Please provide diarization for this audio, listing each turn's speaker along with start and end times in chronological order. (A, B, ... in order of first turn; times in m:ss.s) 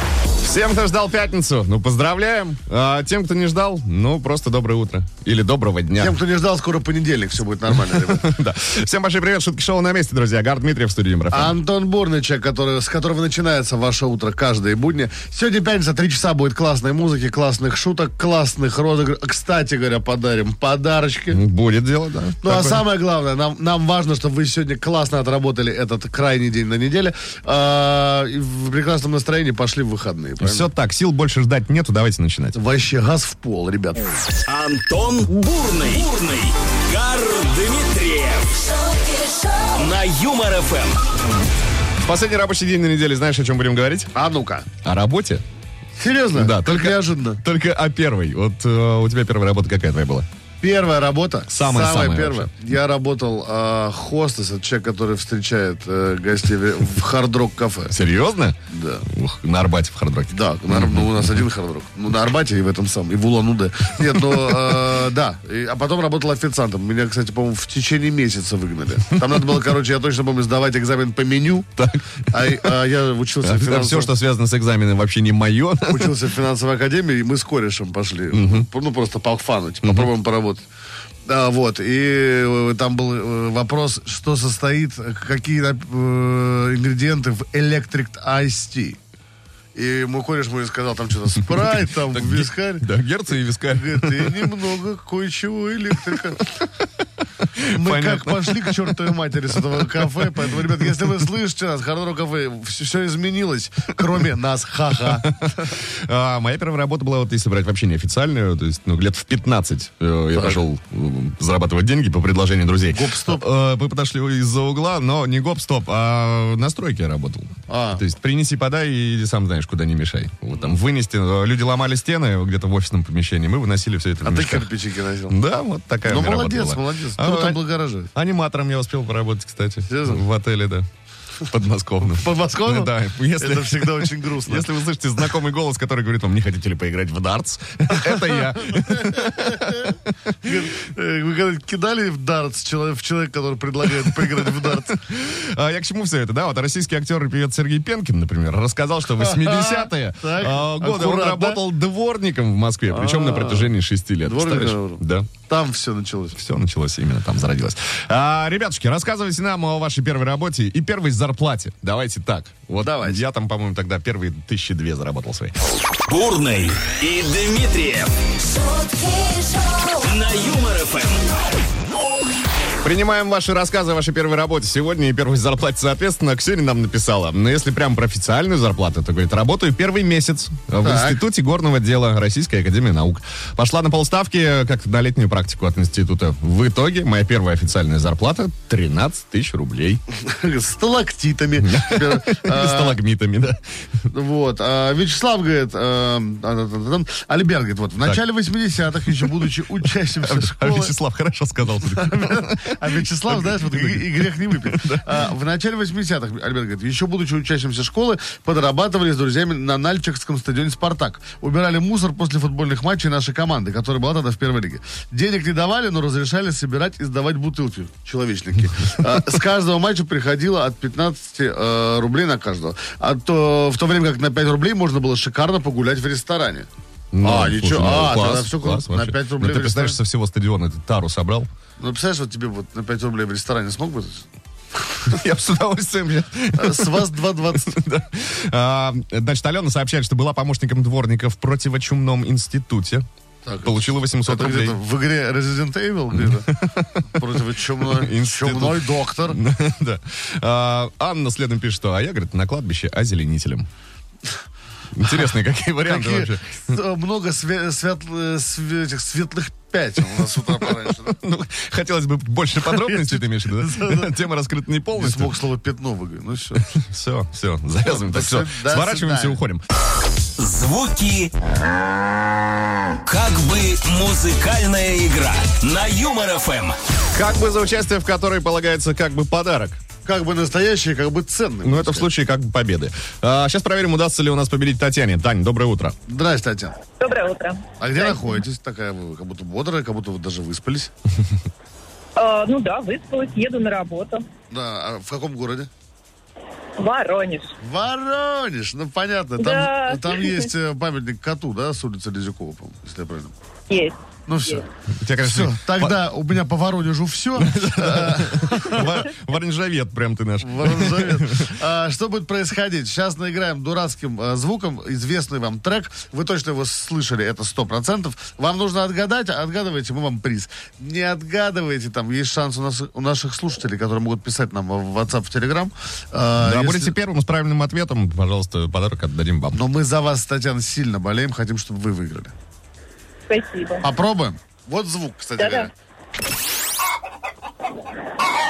0:00.4-0:06.2 A
0:06.0-0:08.3 B
0:07.8-0:11.6 A
0:11.3-0:21.4 B
0:21.3-0:22.8 A
0:22.4-0:30.7 B
0:30.4-0:32.6 A
0:32.5-0:34.1 B
0:34.5-0:41.0 C
0:42.0-0:44.1 A
0:44.1-0:44.6 B
0:44.8-0:45.4 A
0:46.0-0:47.4 B
0:46.3-0:50.3 A
0:50.6-0:57.9 B
0:51.5-0:52.5 A
0:57.9-1:01.4 A
0:58.7-0:59.0 B
1:00.3-1:11.7 B
1:04.1-1:04.6 A
1:09.1-1:09.6 A
1:11.8-1:12.8 A
1:12.3-1:14.1 B
1:13.4-1:16.2 A
1:15.8-1:20.6 B
1:18.3-1:18.7 A
1:19.8-1:20.1 A
1:21.2-1:29.0 B
1:29.7-1:32.9 B
1:31.4-1:34.5 A
1:33.6-1:36.4 B
1:36.0-1:36.6 A
1:37.6-1:41.1 A
1:37.7-1:45.7 B
1:45.0-2:04.7 A
1:52.9-1:53.4 B
1:57.7-1:58.0 B
2:04.2-2:05.4 B
2:05.3-2:07.6 A
2:06.0-2:08.1 B
2:08.1-2:10.9 A
2:09.9-2:10.2 B
2:11.5-2:20.7 A
2:12.0-2:14.7 B
2:18.1-2:25.0 B
2:24.0-2:35.3 A
2:29.2-2:31.6 B
2:32.9-2:36.4 B
2:36.3-2:45.6 A
2:42.8-2:43.2 B
2:46.1-2:48.1 C
2:48.7-2:51.4 C
2:52.8-3:10.0 A
3:00.8-3:01.2 B
3:10.2-3:13.0 B
3:11.6-3:13.6 A
3:14.1-3:21.0 B
3:19.0-3:19.5 A
3:20.2-3:25.3 A
3:21.8-3:46.7 B
3:47.1-3:51.5 A
3:47.2-3:50.0 B
3:51.8-3:54.3 B
3:55.0-4:03.0 A
3:56.5-3:57.8 B
4:03.4-4:09.4 B
4:03.6-4:04.8 A
4:06.1-4:07.2 A
4:07.8-4:13.7 A
4:14.9-4:16.8 A
4:15.8-4:21.2 B
4:20.6-4:25.4 A
4:22.6-4:24.1 B
4:24.9-4:26.7 B
4:26.6-4:29.6 A
4:27.8-4:29.4 B
4:30.4-4:31.3 C
4:32.9-4:36.8 C
4:37.1-4:39.8 A
4:40.0-4:42.1 B
4:41.6-4:46.0 A
4:46.1-4:46.7 B
4:47.0-4:48.2 D
4:47.8-4:50.9 B
4:52.2-4:54.2 D
4:54.5-4:55.7 B
4:56.8-4:57.5 D
4:57.6-5:03.3 B
4:59.4-5:00.4 D
5:03.7-5:04.6 D
5:04.3-5:04.6 B
5:04.9-5:06.0 A
5:05.2-5:09.1 B
5:07.4-5:11.5 A
5:10.4-5:26.9 B
5:26.4-5:29.6 A
5:29.5-5:32.3 B
5:33.3-5:33.8 D
5:33.8-5:35.7 B
5:35.4-5:35.7 D